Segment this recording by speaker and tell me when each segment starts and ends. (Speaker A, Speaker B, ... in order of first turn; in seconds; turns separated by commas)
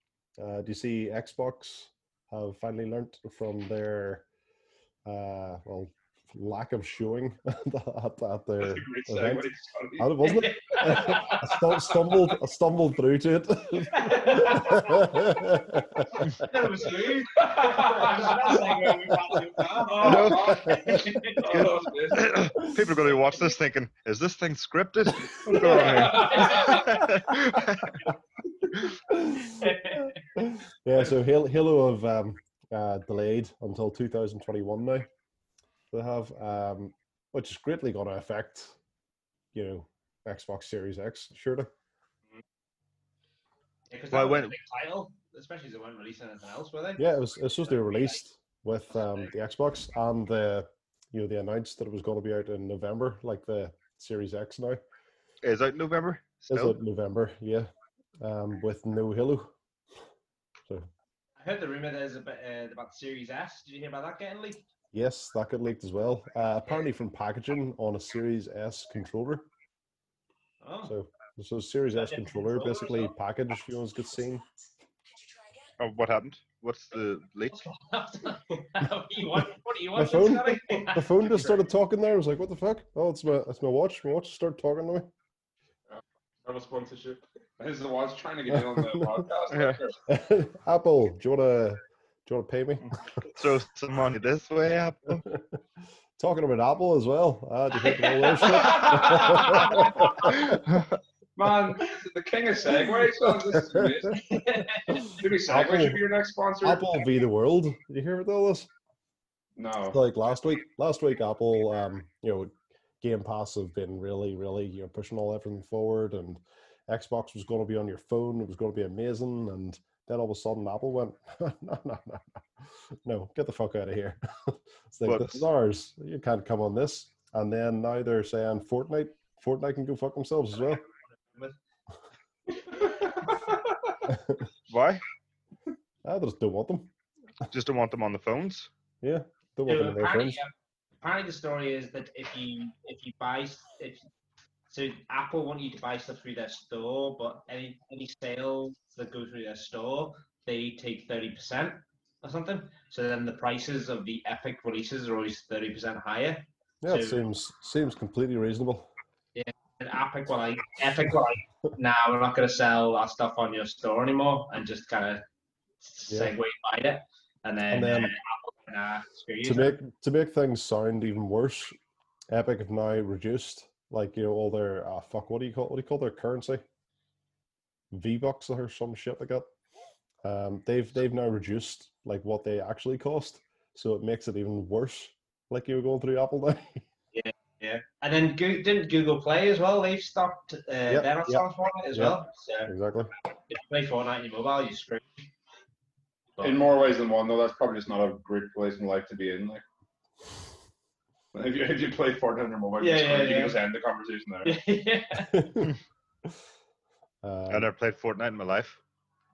Speaker A: 0.4-4.2, Speaker A: 5.0-9.5, Speaker B: 8.6-11.4, Speaker A: 10.0-16.3, Speaker C: 10.3-11.4, Speaker C: 13.9-15.0, Speaker C: 16.4-21.6, Speaker B: 17.6-18.7, Speaker D: 17.6-18.2, Speaker B: 19.7-22.4, Speaker E: 20.0-20.7, Speaker A: 20.4-21.1, Speaker E: 21.4-28.0, Speaker B: 25.5-26.8, Speaker C: 25.6-27.0, Speaker A: 29.1-35.1, Speaker C: 29.5-30.2, Speaker A: 35.9-38.7, Speaker A: 39.5-41.7, Speaker C: 43.9-47.0, Speaker E: 44.1-44.5, Speaker A: 47.0-54.8, Speaker C: 47.6-48.2, Speaker E: 55.4-56.8, Speaker A: 56.5-57.7, Speaker A: 58.2-59.5, Speaker C: 61.4-64.6, Speaker A: 64.9-69.5, Speaker C: 70.6-70.9, Speaker A: 70.8-74.5, Speaker C: 71.9-73.1, Speaker E: 75.8-77.5, Speaker C: 77.5-81.3, Speaker A: 79.9-85.1, Speaker D: 85.9-87.2, Speaker B: 87.6-90.0, Speaker A: 88.5-89.3, Speaker E: 89.5-89.8, Speaker A: 90.1-93.0, Speaker E: 92.9-95.2, Speaker A: 95.2-95.6, Speaker A: 96.2-100.6, Speaker C: 97.8-100.3, Speaker B: 101.3-104.5, Speaker A: 103.5-103.9, Speaker C: 104.3-105.1, Speaker A: 104.9-106.0, Speaker B: 105.1-107.2, Speaker A: 106.6-108.7, Speaker B: 109.6-110.0, Speaker A: 109.9-130.8, Speaker E: 125.0-125.4, Speaker A: 134.1-134.4, Speaker E: 134.7-135.0, Speaker A: 136.0-136.9, Speaker E: 137.5-138.7, Speaker A: 139.0-140.4, Speaker C: 139.7-144.0, Speaker C: 144.7-157.2, Speaker A: 156.8-158.9, Speaker C: 159.3-165.2, Speaker C: 165.8-169.8, Speaker A: 167.7-168.1, Speaker A: 169.4-171.8, Speaker A: 172.3-176.6, Speaker A: 177.9-179.5, Speaker A: 180.2-186.8, Speaker C: 187.1-192.7, Speaker A: 190.9-193.1, Speaker C: 193.5-195.3, Speaker B: 196.4-199.6, Speaker B: 201.3-204.6, Speaker C: 202.8-203.6, Speaker C: 204.4-205.5, Speaker A: 205.3-205.7, Speaker A: 207.2-207.7, Speaker E: 207.5-208.8